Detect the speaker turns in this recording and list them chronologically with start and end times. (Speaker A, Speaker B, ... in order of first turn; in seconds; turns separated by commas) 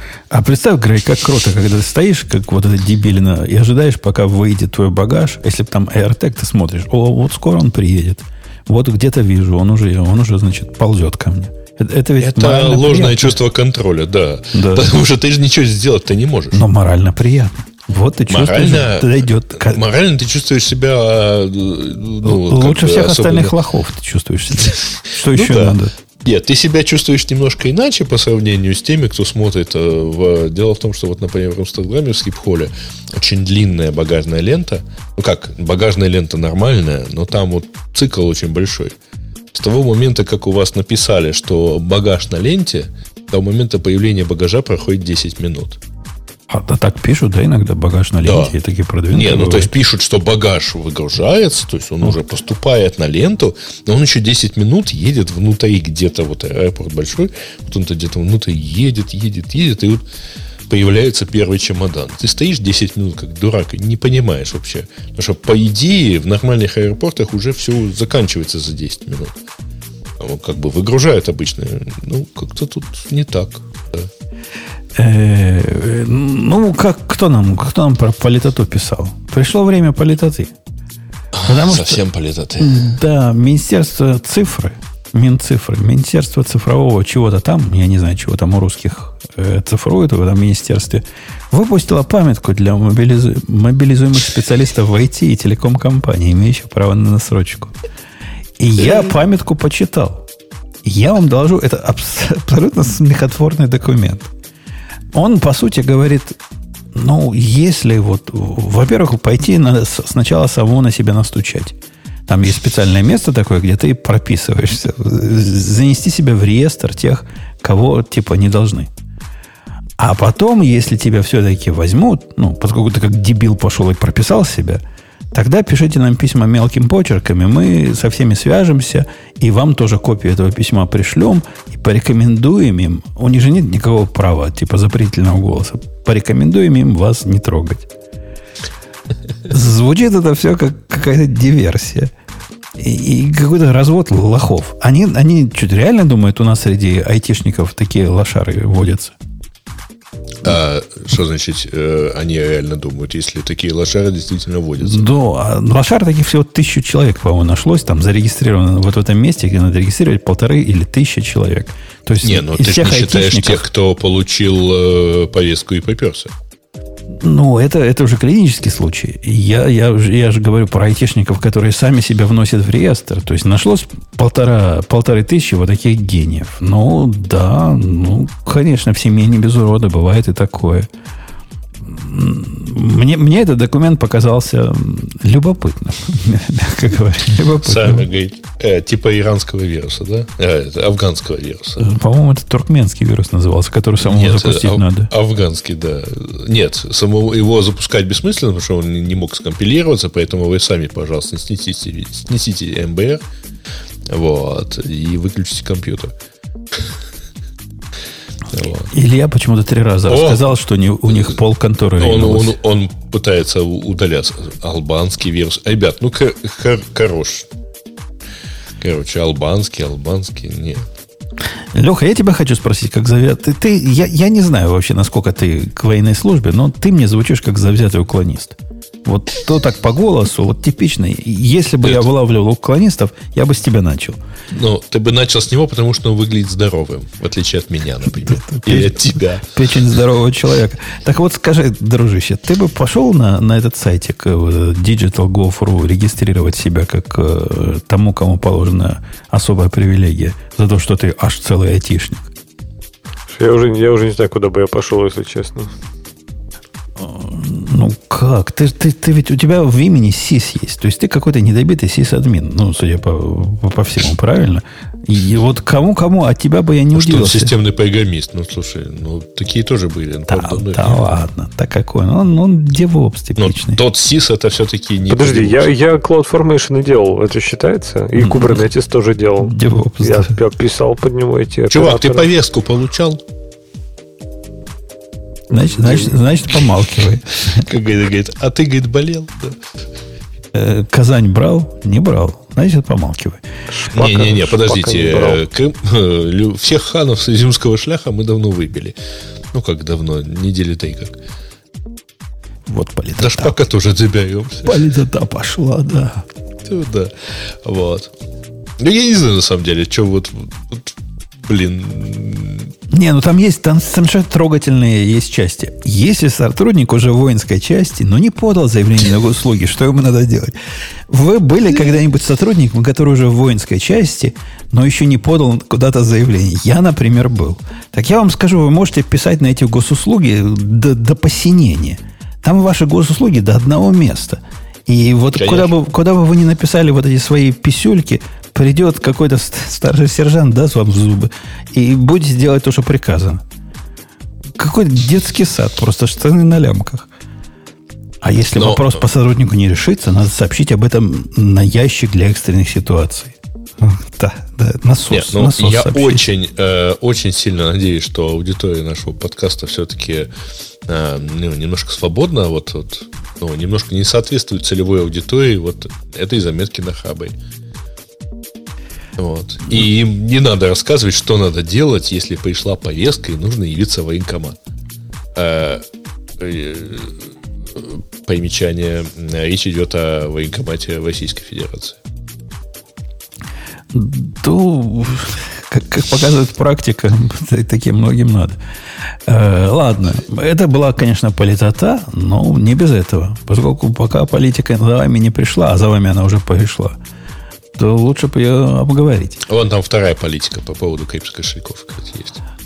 Speaker A: 0.3-13.3, Speaker B: 12.2-16.6, Speaker A: 14.5-15.0, Speaker A: 16.5-19.8, Speaker B: 18.3-23.5, Speaker A: 22.2-25.9, Speaker B: 25.2-39.0, Speaker B: 39.5-45.8, Speaker A: 46.5-49.7, Speaker B: 48.2-48.5, Speaker B: 49.1-60.0, Speaker B: 60.7-69.3, Speaker B: 70.2-74.1, Speaker A: 74.9-80.5, Speaker B: 81.3-82.9, Speaker A: 81.4-82.0, Speaker A: 82.6-97.7, Speaker A: 98.6-100.2, Speaker A: 100.8-104.3, Speaker A: 105.1-106.4, Speaker A: 106.9-111.8, Speaker A: 112.3-118.9, Speaker A: 120.0-124.8, Speaker A: 125.3-137.9, Speaker A: 139.5-142.1, Speaker A: 142.8-149.1, Speaker B: 150.4-155.1, Speaker A: 154.8-163.7, Speaker B: 162.2-166.3, Speaker A: 167.2-180.9, Speaker A: 181.8-188.1, Speaker B: 187.6-191.9, Speaker A: 191.8-195.1, Speaker B: 194.0-203.2, Speaker B: 204.1-206.1, Speaker B: 208.5-208.9, Speaker A: 208.9-212.5, Speaker B: 210.1-210.5, Speaker B: 212.0-217.5, Speaker B: 218.8-220.8, Speaker A: 221.7-234.2, Speaker B: 234.5-239.5, Speaker A: 238.2-252.3, Speaker C: 253.3-255.7, Speaker A: 257.0-267.5, Speaker B: 266.9-271.2, Speaker A: 270.3-273.8, Speaker B: 273.4-275.7, Speaker C: 275.1-282.2, Speaker B: 278.2-278.5, Speaker A: 279.4-280.4, Speaker B: 281.7-283.2, Speaker A: 285.5-287.7, Speaker C: 285.6-286.2, Speaker B: 287.5-289.6, Speaker A: 290.5-293.4, Speaker C: 293.7-295.4, Speaker B: 293.9-298.9, Speaker B: 299.5-301.2, Speaker A: 302.7-303.5, Speaker B: 303.2-304.8, Speaker A: 304.6-306.2, Speaker B: 306.6-308.1, Speaker B: 308.8-312.7, Speaker A: 312.9-320.5, Speaker A: 321.1-343.4, Speaker B: 335.3-335.7, Speaker A: 344.6-347.1, Speaker A: 348.2-356.2, Speaker B: 348.5-349.0, Speaker B: 355.1-360.3, Speaker B: 360.9-367.4, Speaker B: 369.2-374.6, Speaker B: 375.3-375.8, Speaker B: 376.4-382.0, Speaker A: 383.9-388.6, Speaker A: 389.2-396.9, Speaker A: 397.8-399.4, Speaker B: 399.4-402.4